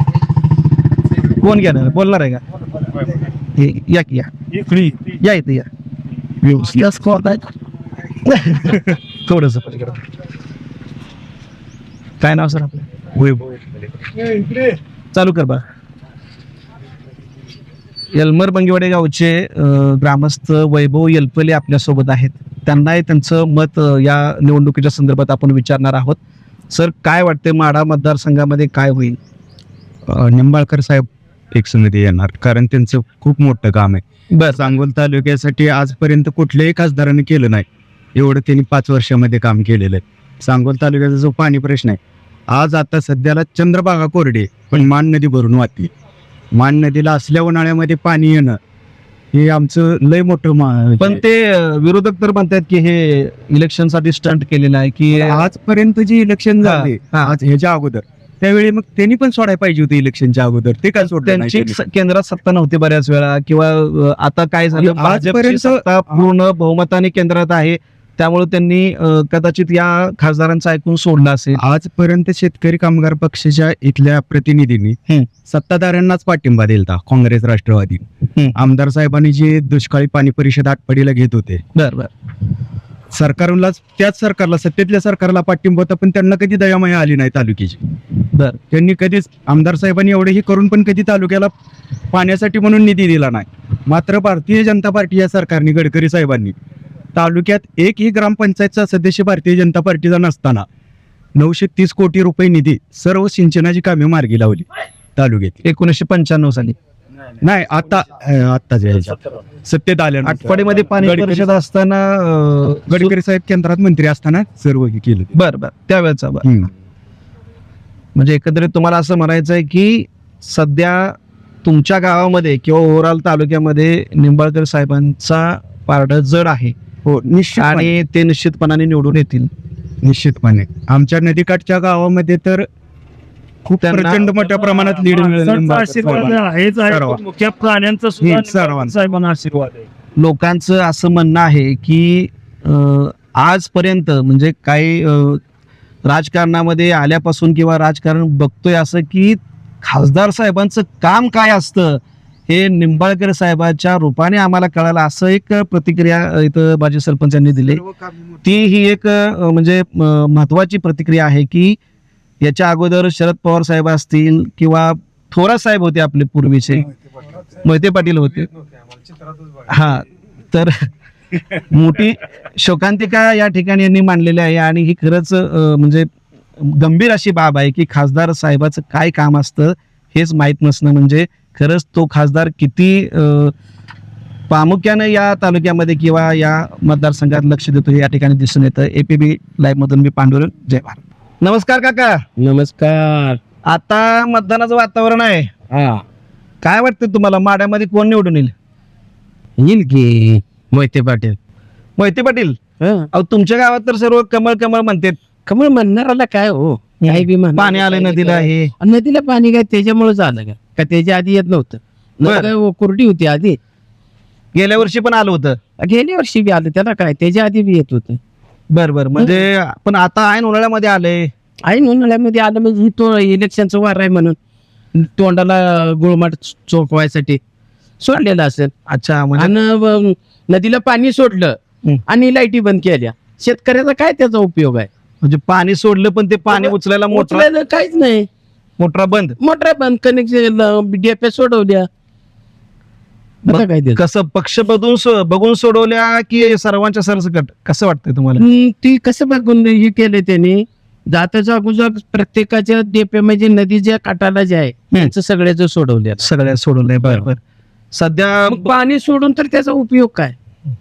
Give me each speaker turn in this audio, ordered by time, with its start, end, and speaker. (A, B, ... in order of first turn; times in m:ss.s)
0:01.4-0:02.4 A
0:03.6-0:04.3 A
0:04.5-0:05.2 B
0:05.2-0:05.7 A
0:08.2-0:10.0 A
0:12.2-0:12.8 A
0:13.2-0:13.7 C
0:15.1-0:15.6 A
0:18.1-0:26.2 A
0:26.7-0:29.2 A
0:30.1-0:34.0 C
0:34.3-0:34.7 A
0:34.6-0:42.0 C
0:42.5-0:45.9 C
0:46.5-0:48.6 C
0:49.3-0:51.2 C
0:51.0-0:55.4 A
0:55.1-1:01.8 C
0:56.6-0:57.3 A
1:01.0-1:11.6 A
1:04.8-1:06.3 C
1:11.5-1:18.0 C
1:18.5-1:21.6 C
1:21.7-1:22.1 A
1:23.1-1:27.8 C
1:28.3-1:28.6 A
1:28.7-1:31.5 C
1:32.1-1:36.5 C
1:37.1-1:40.6 C
1:41.4-1:45.6 C
1:45.6-1:46.7 A
1:47.4-1:51.5 C
1:50.2-1:53.1 A
1:52.9-1:55.3 C
1:55.3-1:56.5 A
1:56.4-1:56.7 C
1:58.2-2:06.7 A
2:07.0-2:07.9 C
2:07.6-2:09.5 A
2:10.0-2:12.7 C
2:13.6-2:16.4 C
2:13.8-2:14.2 A
2:14.4-2:19.9 B
2:16.9-2:17.2 C
2:18.2-2:18.9 C
2:20.2-2:25.4 A
2:26.1-2:37.8 A
2:38.4-2:41.8 A
2:42.4-2:46.8 A
2:47.6-2:48.5 A
2:49.7-2:50.7 A
2:51.6-2:56.1 A
2:56.6-3:03.5 A
3:04.5-3:12.2 A
3:12.4-3:13.4 D
3:13.7-3:15.5 A
3:15.7-3:16.0 D
3:16.6-3:18.5 A
3:19.6-3:21.4 D
3:22.0-3:22.6 A
3:22.8-3:23.1 D
3:23.1-3:25.2 A
3:25.4-3:33.6 D
3:27.0-3:28.7 A
3:32.2-3:32.5 A
3:34.5-3:35.6 A
3:35.8-3:38.2 D
3:38.7-3:41.3 A
3:39.2-3:39.4 D
3:41.6-3:44.4 D
3:44.9-3:47.4 D
3:48.0-3:48.7 D
3:48.9-3:49.5 A
3:49.4-3:54.9 D
3:55.2-3:57.5 A
3:56.5-3:58.3 D
3:58.8-3:59.3 A
3:59.4-4:01.9 D
4:03.4-4:04.0 D
4:03.5-4:08.4 A
4:08.4-4:16.3 D
4:16.2-4:17.4 A
4:17.9-4:18.7 A
4:18.5-4:20.4 D